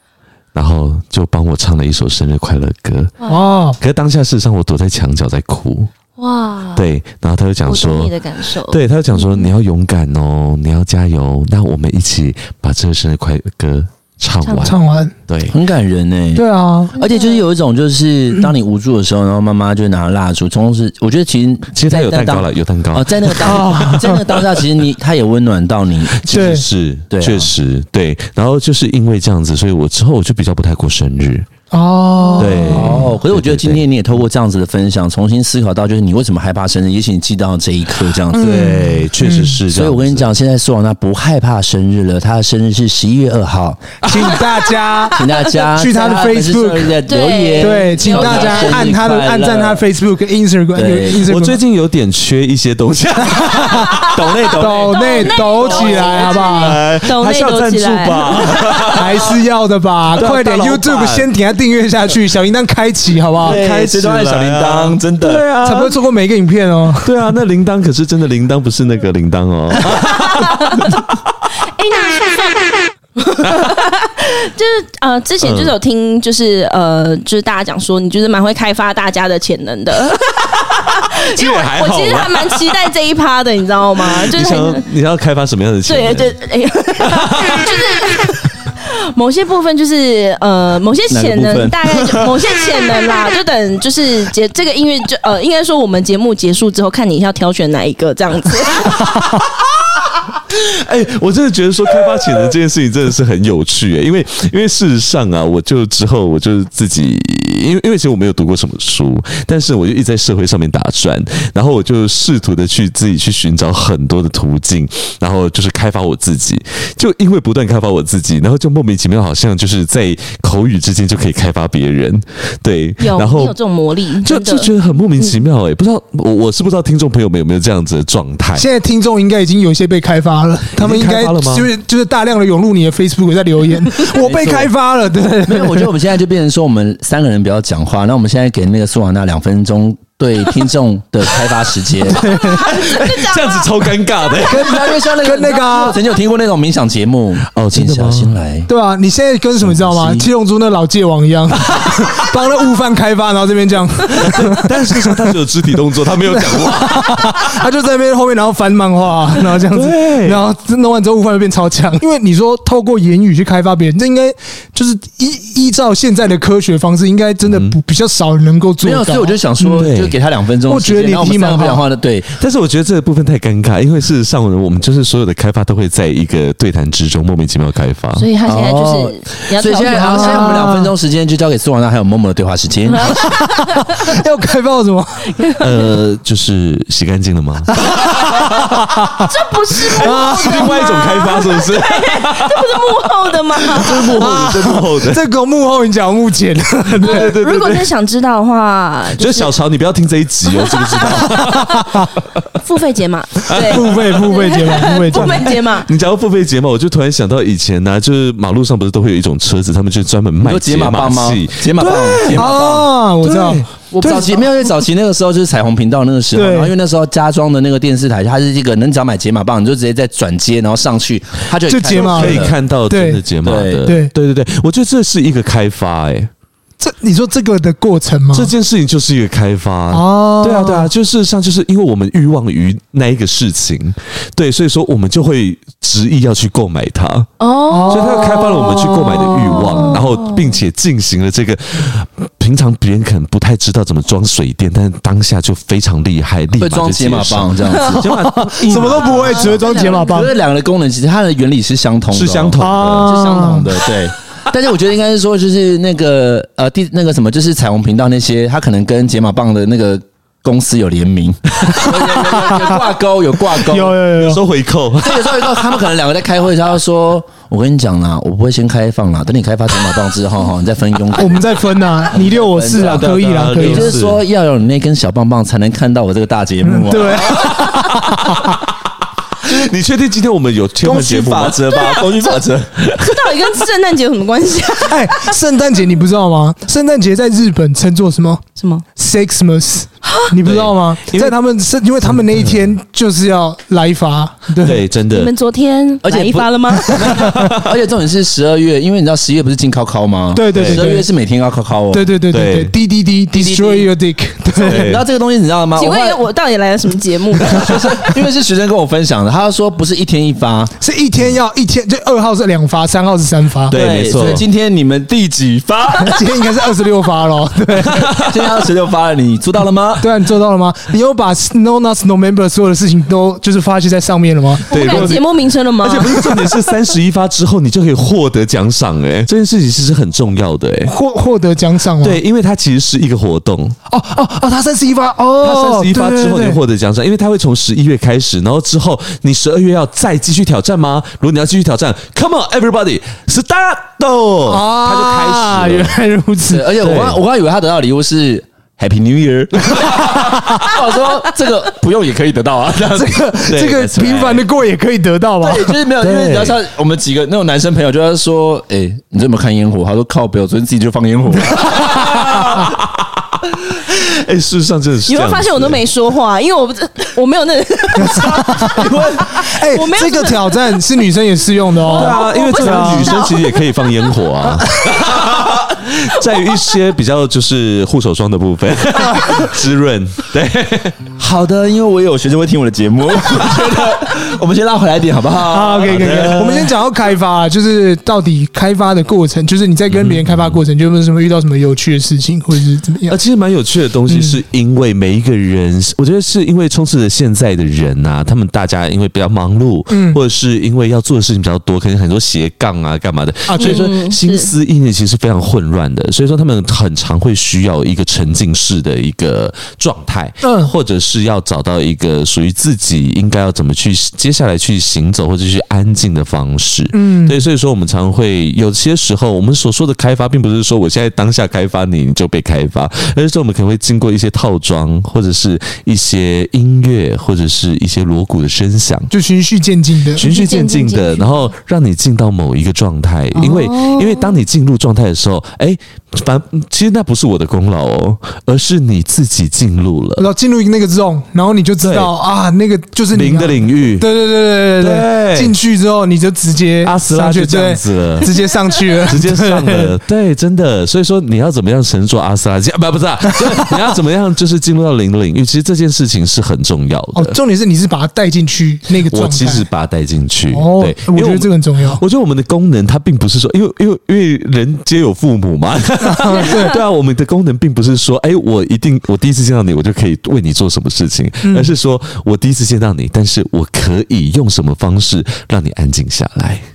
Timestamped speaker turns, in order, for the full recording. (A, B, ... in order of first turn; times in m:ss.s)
0:00.5-0:03.1 A
0:03.3-0:03.8 B
0:03.8-0:05.9 A
0:06.2-0:06.8 C
0:06.7-0:14.8 A
0:07.6-0:09.5 C
0:14.4-0:14.7 C
0:14.6-0:15.1 B
0:15.3-0:15.5 A
0:15.5-0:16.4 D
0:16.3-0:16.9 B
0:16.9-0:17.4 C
0:16.9-0:26.4 D
0:21.7-0:24.0 A
0:23.4-0:24.2 B
0:26.2-0:31.5 A
0:26.3-0:26.6 B
0:27.1-0:27.5 D
0:31.7-0:33.0 B
0:32.4-0:33.8 A
0:32.6-0:38.8 D
0:38.3-0:39.6 B
0:38.4-0:40.3 A
0:39.7-0:43.8 D
0:44.0-0:44.3 A
0:44.0-0:46.9 B
0:44.8-0:45.1 C
0:45.1-0:49.8 D
0:47.1-0:48.9 C
0:47.6-0:51.6 B
0:50.7-0:51.2 D
0:51.2-0:59.3 A
0:53.3-0:56.8 B
0:54.1-0:55.0 D
0:54.9-0:59.0 C
0:58.8-1:03.6 B
1:00.1-1:01.3 A
1:03.4-1:06.0 A
1:03.4-1:05.4 D
1:05.6-1:07.2 B
1:07.0-1:11.2 A
1:09.9-1:11.0 C
1:11.6-1:24.9 C
1:15.4-1:15.7 A
1:21.0-1:22.6 A
1:24.0-1:26.3 A
1:25.8-1:39.1 C
1:27.0-1:27.6 A
1:31.1-1:31.8 D
1:40.5-2:03.6 A
2:03.0-2:05.4 C
2:04.2-2:08.7 A
2:08.6-2:15.9 B
2:10.7-2:11.7 A
2:14.1-2:14.7 D
2:15.4-2:22.2 D
2:22.2-2:22.6 B
2:22.2-2:24.5 C
2:22.3-2:24.8 A
2:24.4-2:28.7 D
2:25.1-2:26.0 B
2:27.5-2:28.3 A
2:28.7-2:35.3 B
2:29.6-2:30.3 D
2:31.8-2:32.1 A
2:34.1-2:37.5 A
2:36.2-2:49.9 B
2:39.7-2:40.4 A
2:47.4-2:47.8 A
2:48.8-2:52.3 D
2:49.7-2:50.1 A
2:50.7-2:51.8 B
2:52.4-2:58.3 A
2:58.1-3:00.6 C
2:58.4-3:03.2 D
2:59.8-3:00.9 B
3:02.9-3:04.2 C
3:03.5-3:05.4 B
3:05.3-3:05.9 C
3:05.6-3:09.0 A
3:07.8-3:09.3 B
3:09.2-3:14.2 C
3:09.9-3:12.7 A
3:10.0-3:10.8 B
3:13.7-3:15.2 A
3:13.8-3:17.3 B
3:16.9-3:17.9 A
3:17.0-3:19.5 C
3:19.2-3:22.1 A
3:20.6-3:21.2 C
3:22.6-3:25.9 C
3:23.5-3:24.1 A
3:23.5-3:25.6 B
3:25.1-3:32.4 A
3:30.4-3:32.9 D
3:32.2-3:34.3 B
3:33.2-3:33.6 A
3:33.9-3:42.5 D
3:36.3-3:36.7 B
3:41.7-3:43.2 B
3:41.9-3:46.3 A
3:43.4-3:43.9 D
3:43.8-3:44.1 B
3:46.8-3:48.5 B
3:48.3-3:57.3 A
3:49.9-3:50.9 B
3:57.4-4:00.6 C
3:57.7-4:00.0 B
3:57.9-4:09.7 A
4:06.6-4:08.1 D
4:08.0-4:10.3 B
4:08.9-4:10.3 C
4:09.9-4:24.0 D
4:12.1-4:13.1 A
4:12.6-4:13.7 B
4:22.4-4:22.8 B
4:23.6-4:24.4 B
4:24.1-4:25.6 A
4:25.0-4:31.4 D
4:31.2-4:34.0 B
4:32.1-4:37.4 D
4:32.8-4:34.2 A
4:36.6-4:38.4 B
4:37.2-4:38.4 A
4:39.4-4:41.9 A
4:40.8-4:42.8 D
4:41.7-4:42.4 C
4:43.0-4:45.4 C
4:44.9-4:48.4 B
4:48.6-4:48.8 C
4:49.0-4:54.8 B
4:50.0-4:50.3 C
4:50.4-4:51.3 A
4:52.1-4:52.6 A
4:54.6-4:55.3 A
4:55.1-4:57.2 C
4:56.0-5:02.1 D
4:57.2-4:57.7 A
5:00.3-5:01.1 B
5:00.5-5:01.0 A
5:01.9-5:05.0 B
5:02.3-5:02.7 A
5:03.3-5:03.9 D
5:04.5-5:06.2 D
5:04.6-5:05.0 A
5:05.8-5:07.8 C
5:07.4-5:10.7 D
5:10.8-5:14.4 B
5:13.7-5:14.4 A
5:13.7-5:16.2 D
5:16.0-5:18.1 B
5:17.7-5:18.6 A
5:18.2-5:20.0 D
5:20.0-5:25.2 B
5:24.7-5:25.2 A
5:24.7-5:26.2 C
5:25.8-5:30.9 A
5:26.0-5:26.5 B
5:30.8-5:32.2 B
5:32.0-5:33.8 A
5:33.9-5:36.6 B
5:35.4-5:46.0 A
5:44.5-5:46.7 B
5:46.5-5:53.2 D
5:46.7-5:47.2 A
5:52.9-5:55.8 B
5:53.5-5:54.4 A
5:55.4-6:01.8 D
5:56.0-5:56.6 A
6:01.5-6:05.8 A
6:05.0-6:10.8 C
6:08.0-6:13.2 B
6:08.8-6:09.2 D
6:11.8-6:14.1 C
6:11.8-6:21.0 A
6:19.1-6:19.4 B
6:21.2-6:26.5 D
6:23.4-6:23.7 A
6:25.5-6:33.2 B
6:25.8-6:26.7 A
6:29.9-6:30.6 A
6:33.1-7:09.1 A
6:34.0-6:34.4 B
6:39.9-6:40.2 B
6:43.5-6:43.8 B
6:43.6-6:44.5 C
6:50.4-6:50.7 B
6:56.9-6:57.4 B
7:09.1-7:10.2 B
7:10.2-7:11.5 C
7:10.2-7:20.2 A
7:13.4-7:14.4 C
7:20.2-7:29.9 B
7:21.8-7:22.1 A
7:23.1-7:24.1 A
7:24.8-7:25.5 A
7:26.8-7:28.3 A
7:29.0-7:37.4 A
7:37.1-7:39.7 B
7:39.1-7:56.6 A
7:40.5-7:42.0 B
7:46.0-7:46.8 B
7:51.4-7:51.7 B